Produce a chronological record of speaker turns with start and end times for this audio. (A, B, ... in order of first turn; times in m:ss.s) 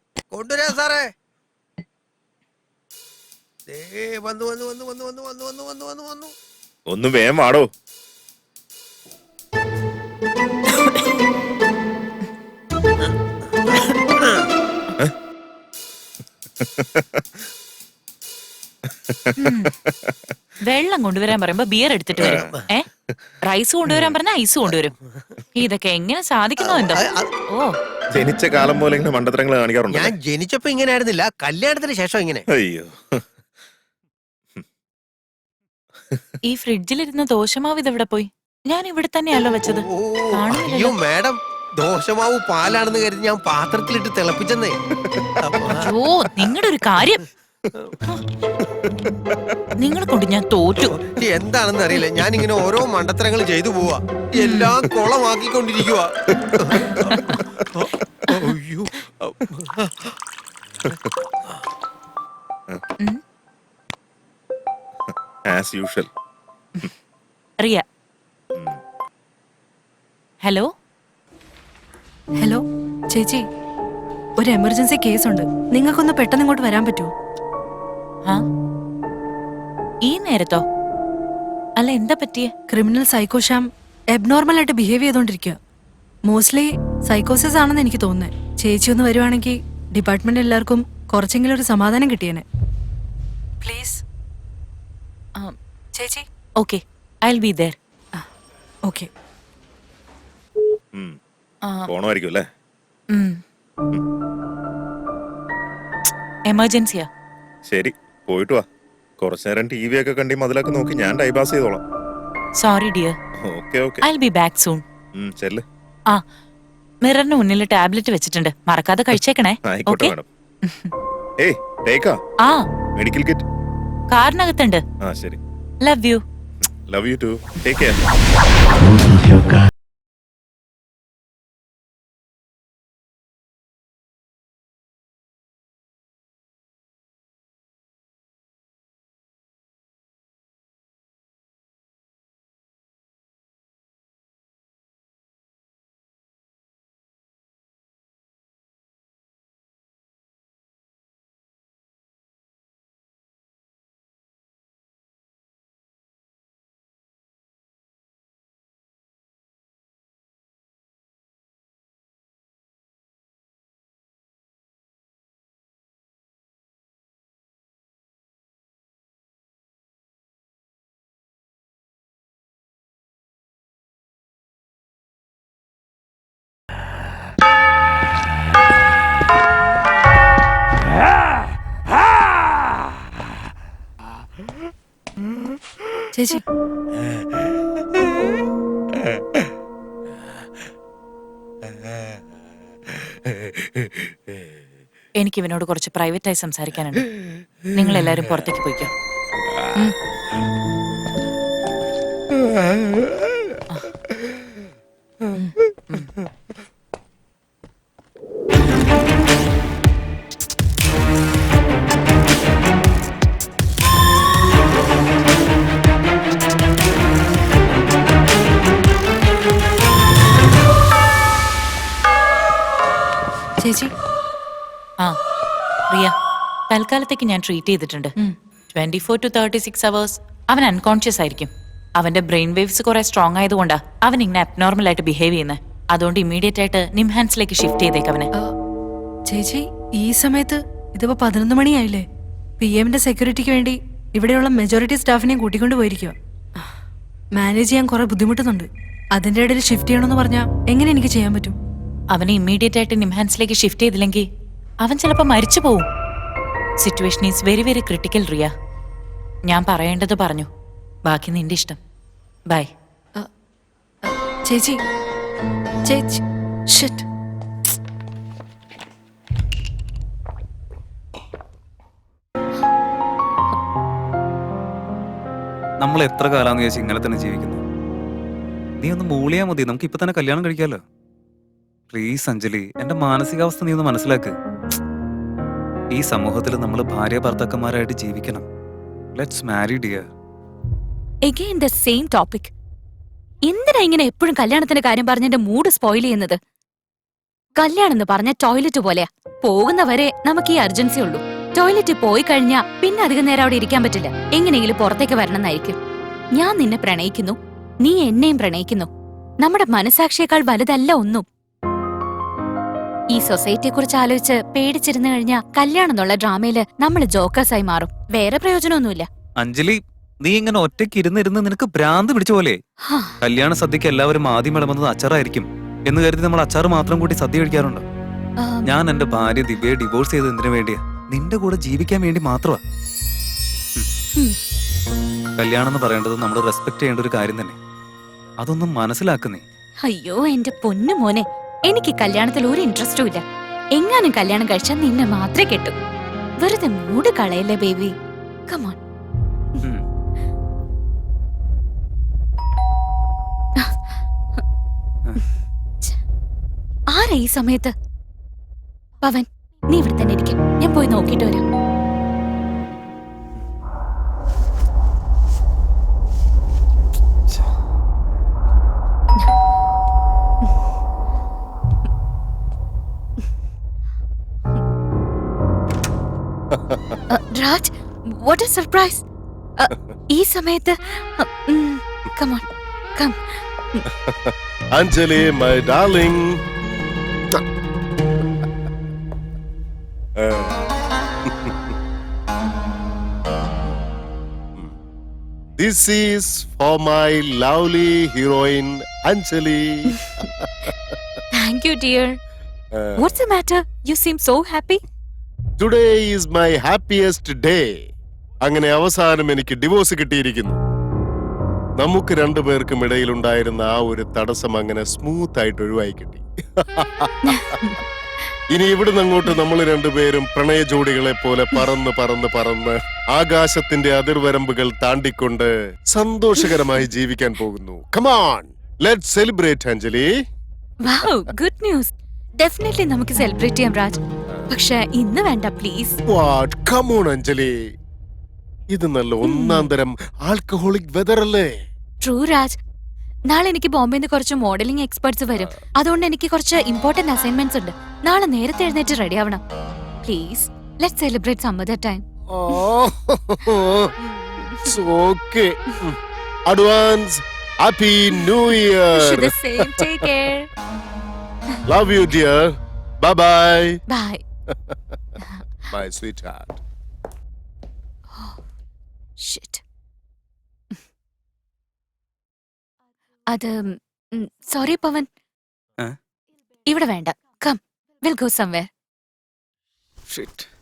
0:00.3-0:01.1 A
0:03.7-0:06.3 A
0:06.9-0:07.7 B
0:16.6-0:17.2 B
0:19.1-0:19.4 B
0:19.4-0:19.7 C
0:20.6-0:22.9 C
0:22.2-0:22.5 B
0:22.3-0:22.6 A
0:23.4-0:24.9 C
0:25.6-0:27.7 C
0:26.6-0:27.3 A
0:28.1-0:30.1 B
0:29.9-0:32.4 A
0:32.5-0:33.2 B
0:36.5-0:39.9 C
0:39.7-0:44.8 A
0:40.4-0:41.0 C
0:45.4-0:45.9 A
0:45.8-0:47.2 C
0:49.8-0:50.9 C
0:50.8-1:00.1 A
0:54.4-0:54.8 C
1:05.4-1:06.1 B
1:08.5-1:08.8 B
1:12.4-1:13.5 D
1:14.4-1:17.1 D
1:20.0-1:20.6 C
1:21.8-1:22.5 C
1:22.7-1:25.6 D
1:26.3-1:32.4 D
1:33.6-1:34.0 D
1:36.0-1:36.3 D
1:36.6-1:37.8 C
1:40.9-1:41.2 B
1:41.9-1:42.5 B
1:43.1-1:43.4 C
1:46.5-1:47.1 C
1:47.6-1:48.7 B
1:49.2-1:51.8 B
1:52.6-1:53.2 C
1:53.4-1:54.0 B
1:54.0-1:54.8 C
1:55.2-1:55.7 B
1:57.0-2:00.2 C
1:59.6-2:00.3 B
2:01.4-2:02.2 B
2:03.0-2:03.5 B
2:04.1-2:04.8 C
2:05.0-2:05.4 B
2:05.8-2:06.2 C
2:06.6-2:08.1 B
3:06.1-3:06.4 D
3:15.2-3:17.1 C
3:17.7-3:18.9 C
3:25.3-3:26.1 C
3:43.6-3:43.9 D
3:46.7-3:48.1 C
3:48.7-3:58.3 C
3:59.3-4:02.1 D
4:02.6-4:06.2 D
4:07.3-4:11.6 D
4:12.1-4:14.2 C
4:14.8-4:15.9 C
4:16.8-4:18.5 C
4:19.5-4:20.5 C
4:21.1-4:21.8 C
4:24.0-4:24.8 D
4:25.9-4:27.1 D
4:35.8-4:37.6 E
4:38.8-4:40.8 E
4:41.9-4:44.3 E
4:45.9-4:48.5 E
4:49.2-4:50.1 E
4:51.2-4:52.5 F
4:53.5-4:56.4 F
4:57.6-5:05.8 F
5:06.4-5:08.9 F
5:09.4-5:11.2 F
5:13.1-5:19.1 F
5:19.4-5:22.6 E
5:22.8-5:23.2 F
5:23.2-5:27.8 E
5:28.4-5:28.8 F
5:28.6-5:32.6 E
5:35.4-5:37.6 E
5:38.4-5:39.4 E
5:39.8-5:43.2 F
5:43.8-5:45.7 F
5:46.4-5:47.9 F
5:48.5-5:48.8 F
5:56.9-5:57.7 F
5:59.0-6:01.4 F
6:16.6-6:17.0 G
6:17.1-6:19.0 F
6:19.6-6:22.4 F
6:23.0-6:23.8 F
6:24.0-6:26.4 G
6:30.2-6:30.6 G
6:31.3-6:31.6 G
6:35.6-6:40.7 G
6:41.3-6:42.2 F
6:42.7-6:43.1 G
6:43.0-6:44.8 F
6:45.6-6:47.8 G
6:48.4-6:50.6 G
6:51.8-6:57.3 G
6:57.2-6:57.8 F
6:58.5-7:10.1 G
7:10.8-7:16.0 F
7:16.1-7:17.6 G
7:18.7-7:21.6 G
7:19.2-7:19.7 F
7:22.0-7:22.6 F
7:23.3-7:29.4 F
7:25.4-7:25.6 G
7:30.0-7:32.6 F
7:32.3-7:33.9 G
7:34.0-7:34.7 F
7:34.6-7:36.0 G
7:36.5-7:40.0 G
7:38.9-7:40.5 F
7:41.7-7:43.8 G
7:43.9-7:44.2 F
7:45.7-7:46.6 G
7:49.2-7:49.6 F
7:53.3-7:55.1 F
7:56.7-7:58.7 F
8:00.1-8:00.5 E